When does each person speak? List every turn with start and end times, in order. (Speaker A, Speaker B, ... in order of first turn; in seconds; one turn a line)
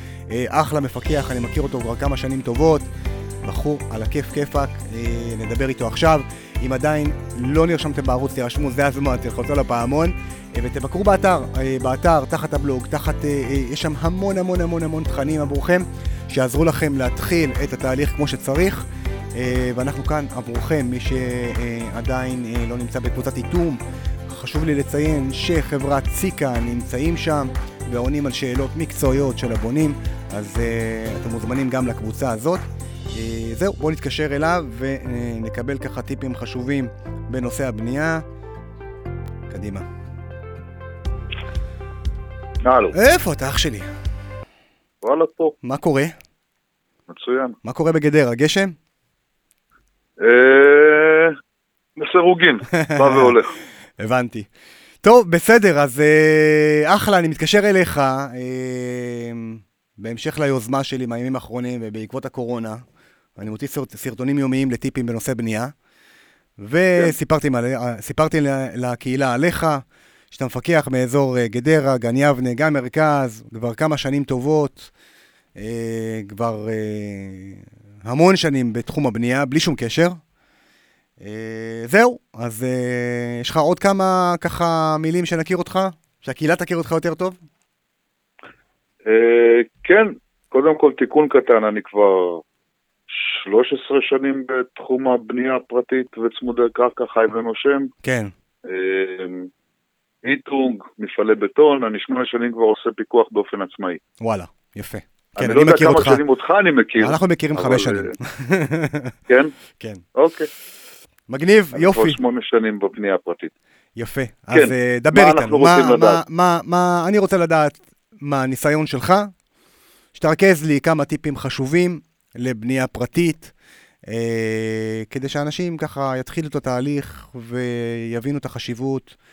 Speaker A: 0.3-2.8
Speaker A: 3.4-38.2
Speaker A: 39.5-39.9
Speaker B: 42.6-43.0
Speaker A: 42.9-43.9
Speaker B: 45.0-45.5
Speaker A: 45.6-46.1
Speaker B: 47.1-47.6
Speaker A: 47.6-48.7
Speaker B: 50.2-51.4
Speaker B: 52.0-53.5
Speaker A: 52.8-53.4
Speaker A: 54.0-54.5
Speaker A: 55.0-62.8
Speaker A: 63.4-65.7
Speaker A: 66.6-74.9
Speaker A: 75.6-80.2
Speaker A: 81.2-87.4
Speaker B: 89.1-92.4
Speaker B: 93.1-97.9
Speaker A: 98.0-98.3
Speaker B: 98.7-99.5
Speaker B: 100.2-104.0
Speaker A: 104.2-106.2
Speaker B: 105.4-108.2
Speaker A: 107.0-109.1
Speaker A: 109.8-110.0
Speaker B: 110.2-110.5
Speaker A: 111.3-112.2
Speaker B: 111.7-113.5
Speaker A: 114.0-119.3
Speaker B: 114.5-116.2
Speaker A: 120.2-123.5
Speaker A: 124.1-129.2